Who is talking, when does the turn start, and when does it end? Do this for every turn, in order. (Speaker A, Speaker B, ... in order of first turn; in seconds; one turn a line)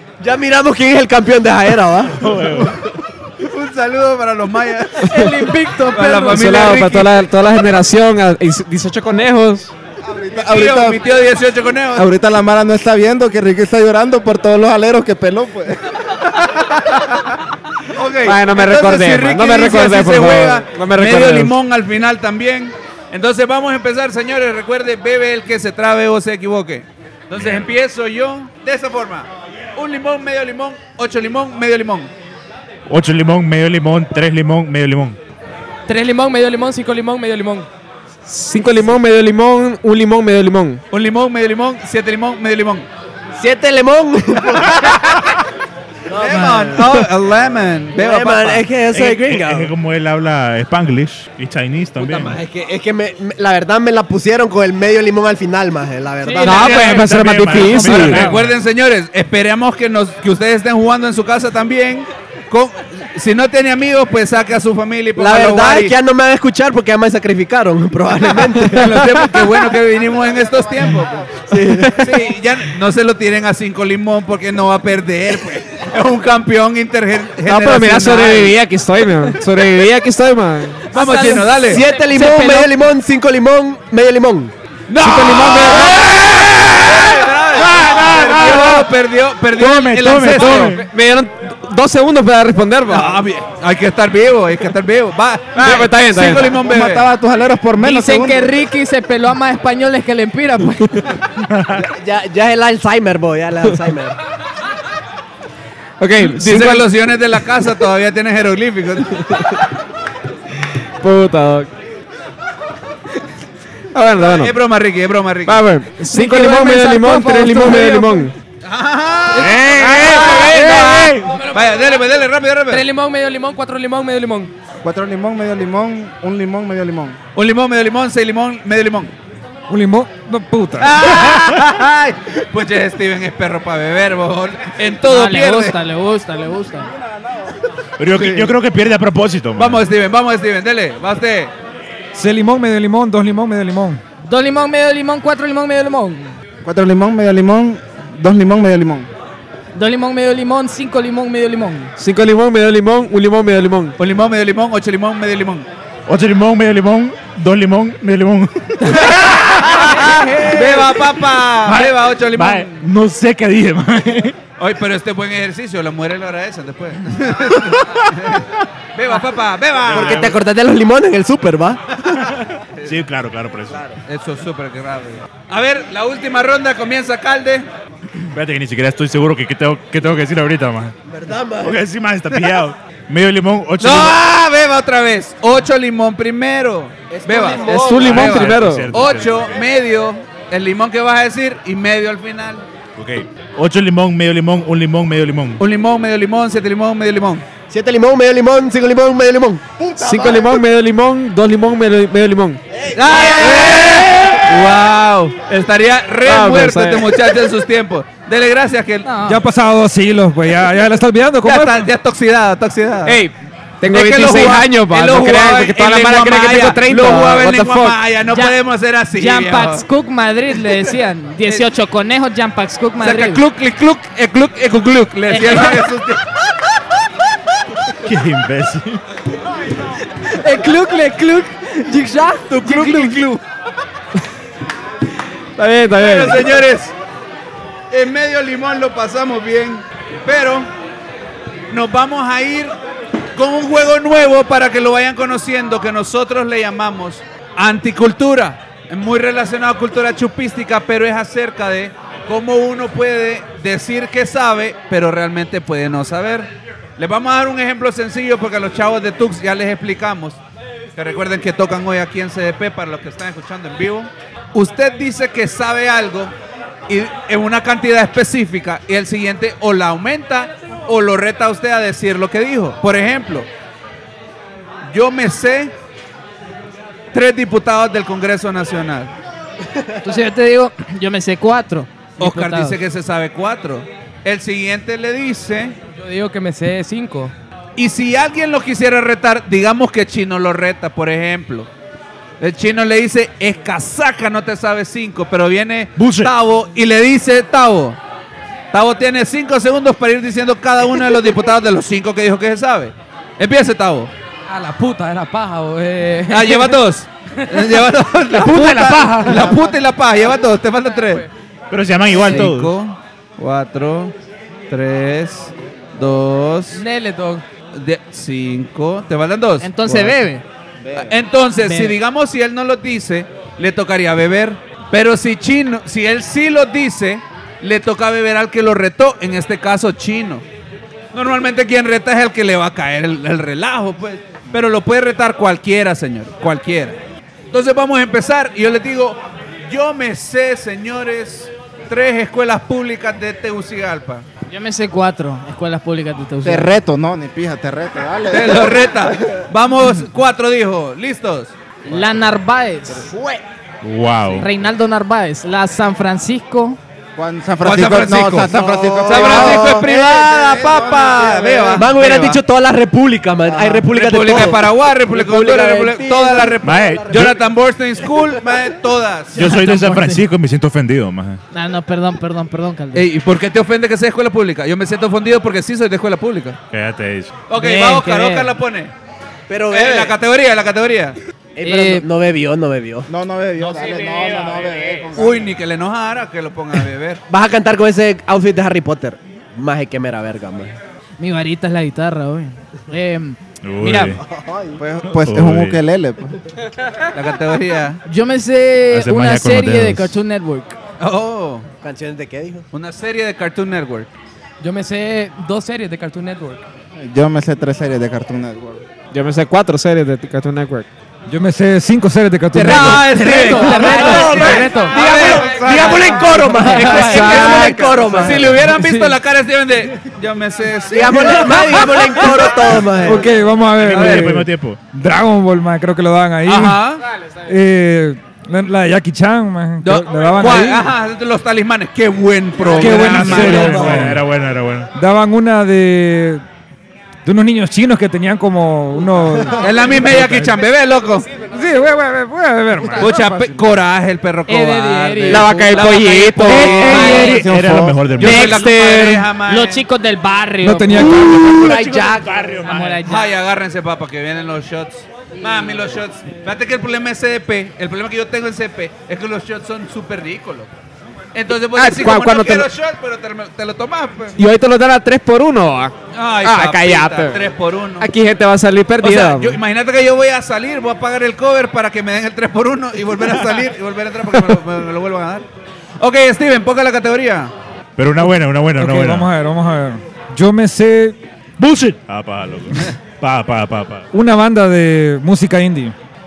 Speaker A: 0.2-2.2
Speaker B: 2.2-2.8
Speaker C: 3.4-5.2
Speaker D: 5.1-6.4
Speaker C: 5.9-7.1
Speaker E: 6.3-9.7
Speaker F: 10.0-11.0
Speaker C: 10.3-12.1
Speaker F: 12.0-16.0
Speaker C: 17.9-32.1
Speaker E: 18.2-21.5
Speaker B: 27.4-27.6
Speaker B: 32.9-35.2
Speaker G: 35.9-37.7
Speaker E: 38.3-40.8
Speaker C: 40.9-42.9
Speaker A: 43.4-44.7
Speaker A: 46.1-47.0
Speaker C: 46.1-48.7
Speaker A: 48.0-49.7
Speaker B: 48.9-52.4
Speaker A: 52.0-56.7
Speaker E: 56.4-58.3
Speaker B: 56.4-58.5
Speaker C: 56.6-57.0
Speaker C: 57.5-65.9
Speaker A: 65.2-69.2
Speaker C: 68.7-71.4
Speaker A: 71.5-72.0
Speaker E: 71.5-72.1
Speaker C: 71.9-78.5
Speaker E: 77.5-80.9
Speaker D: 80.9-82.7
Speaker C: 80.9-81.8
Speaker A: 81.6-84.5
Speaker C: 84.9-90.8
Speaker E: 85.0-86.1
Speaker B: 87.6-88.6
Speaker E: 87.8-88.9
Speaker E: 89.6-93.2
Speaker B: 89.9-90.9
Speaker C: 92.9-97.1
Speaker E: 95.5-96.6
Speaker F: 96.6-98.5
Speaker D: 97.8-101.0
Speaker B: 101.5-101.8
Speaker A: 101.8-104.1
Speaker E: 106.0-106.9
Speaker C: 106.2-109.4
Speaker E: 111.0-111.7
Speaker E: 113.9-114.6
Speaker C: 114.2-115.6
Speaker E: 115.5-118.3
Speaker D: 116.0-118.3
Speaker C: 118.6-122.8
Speaker B: 119.4-120.9
Speaker E: 119.5-121.4
Speaker G: 121.3-121.8
Speaker G: 122.7-124.5
Speaker F: 124.8-127.2
Speaker C: 127.3-129.1
Speaker H: 129.7-131.1
Speaker C: 130.8-135.8
Speaker D: 135.1-136.9
Speaker B: 138.0-139.8
Speaker C: 138.2-138.5
Speaker C: 139.6-141.5
Speaker H: 142.1-144.0
Speaker D: 144.2-146.4
Speaker F: 146.6-149.1
Speaker D: 149.7-151.9
Speaker E: 152.0-153.9
Speaker C: 154.0-155.7
Speaker B: 156.1-159.0
Speaker C: 158.9-162.8
Speaker B: 159.6-160.0
Speaker B: 161.6-164.4
Speaker C: 164.6-170.3
Speaker B: 169.9-170.3
Speaker A: 169.9-171.8
Speaker B: 172.8-173.9
Speaker C: 174.1-177.7
Speaker B: 178.3-180.9
Speaker A: 181.1-181.7
Speaker B: 181.6-184.2
Speaker C: 183.8-192.7
Speaker A: 187.1-188.1
Speaker E: 187.6-189.0
Speaker B: 188.0-189.5
Speaker B: 192.9-195.6
Speaker C: 195.6-197.5
Speaker A: 197.7-200.5
Speaker E: 200.0-202.6
Speaker A: 202.9-204.4
Speaker C: 203.0-209.1
Speaker E: 206.2-207.1
Speaker D: 209.1-209.4
Speaker H: 209.3-211.9
Speaker C: 211.4-213.2
Speaker E: 213.1-218.0
Speaker C: 213.9-219.8
Speaker D: 218.3-218.6
Speaker D: 219.1-223.4
Speaker C: 223.0-226.2
Speaker D: 225.3-225.8
Speaker B: 228.0-229.0
Speaker D: 230.4-233.2
Speaker C: 232.5-233.4
Speaker E: 235.6-236.5
Speaker C: 235.9-236.9
Speaker C: 237.9-240.7
Speaker C: 241.7-242.8
Speaker C: 243.4-260.4
Speaker C: 261.0-266.4
Speaker C: 266.9-273.5
Speaker C: 274.9-275.7
Speaker C: 277.1-279.1
Speaker D: 280.0-282.8
Speaker C: 282.2-285.8
Speaker G: 286.0-287.3
Speaker C: 287.8-291.7
Speaker C: 292.4-298.0
Speaker B: 296.0-296.3
Speaker C: 298.7-304.1
Speaker G: 304.5-306.8
Speaker C: 306.3-311.3
Speaker B: 308.4-309.5
Speaker B: 311.7-312.7
Speaker C: 312.1-314.1
Speaker C: 314.7-316.8
Speaker G: 316.7-317.4
Speaker C: 317.7-320.2
Speaker D: 319.6-320.4
Speaker F: 320.8-321.1
Speaker C: 320.9-330.4
Speaker D: 321.6-321.9
Speaker C: 331.1-337.0
Speaker C: 337.5-344.3
Speaker D: 344.5-346.7
Speaker F: 346.4-349.1
Speaker C: 348.3-351.6
Speaker D: 351.9-353.1
Speaker B: 353.8-354.5
Speaker D: 354.3-356.8
Speaker F: 357.2-362.1
Speaker C: 357.6-358.5
Speaker A: 358.5-359.8
Speaker C: 359.1-362.4
Speaker A: 361.8-367.3
Speaker F: 363.5-363.8
Speaker C: 363.9-369.5
Speaker B: 366.6-367.4
Speaker B: 369.4-371.4
Speaker D: 369.4-370.3
Speaker D: 371.5-373.1
Speaker C: 372.9-376.6
Speaker B: 376.7-377.3
Speaker C: 377.5-378.9
Speaker D: 377.6-378.5
Speaker A: 379.5-380.2
Speaker C: 379.7-381.2
Speaker A: 381.6-383.1
Speaker D: 381.6-382.1
Speaker F: 383.1-385.5
Speaker C: 385.1-387.2
Speaker A: 387.3-390.8
Speaker D: 391.2-394.2
Speaker B: 393.6-394.2
Speaker F: 394.7-396.4
Speaker B: 395.0-395.8
Speaker C: 397.1-398.0
Speaker D: 398.1-400.8
Speaker B: 398.9-400.2
Speaker C: 401.0-401.7
Speaker A: 401.8-402.6
Speaker C: 402.7-404.1
Speaker G: 404.6-406.6
Speaker F: 407.0-408.8
Speaker E: 409.1-410.9
Speaker H: 411.3-413.2
Speaker C: 412.5-423.3
Speaker G: 412.6-417.8
Speaker A: 413.5-418.6
Speaker G: 418.6-419.2
Speaker A: 420.9-423.2
Speaker H: 423.0-426.8
Speaker B: 423.8-424.8
Speaker C: 423.9-424.4
Speaker C: 426.4-427.0
Speaker H: 427.5-430.9
Speaker C: 429.8-434.1
Speaker H: 432.6-434.2
Speaker B: 432.8-434.9
Speaker H: 434.9-436.4
Speaker H: 437.2-440.6
Speaker C: 439.6-441.4
Speaker H: 441.4-443.5
Speaker C: 443.0-447.4
Speaker F: 443.3-443.7
Speaker G: 444.5-445.8
Speaker E: 445.3-447.2
Speaker B: 446.5-448.7
Speaker D: 446.8-447.4
Speaker F: 446.9-448.0
Speaker C: 448.2-449.8
Speaker D: 448.2-448.8
Speaker E: 448.6-449.2
Speaker D: 449.5-451.1
Speaker H: 450.6-451.7
Speaker B: 451.1-453.0
Speaker A: 451.6-452.1
Speaker D: 452.6-453.3
Speaker C: 453.1-460.7
Speaker C: 461.3-464.4
Speaker E: 461.7-462.7
Speaker E: 464.4-467.4
Speaker C: 466.1-468.1
Speaker E: 468.0-469.6
Speaker C: 469.0-475.5
Speaker C: 476.0-477.5
Speaker B: 478.0-479.3
Speaker H: 478.8-481.2
Speaker B: 481.6-484.1
Speaker H: 484.1-485.9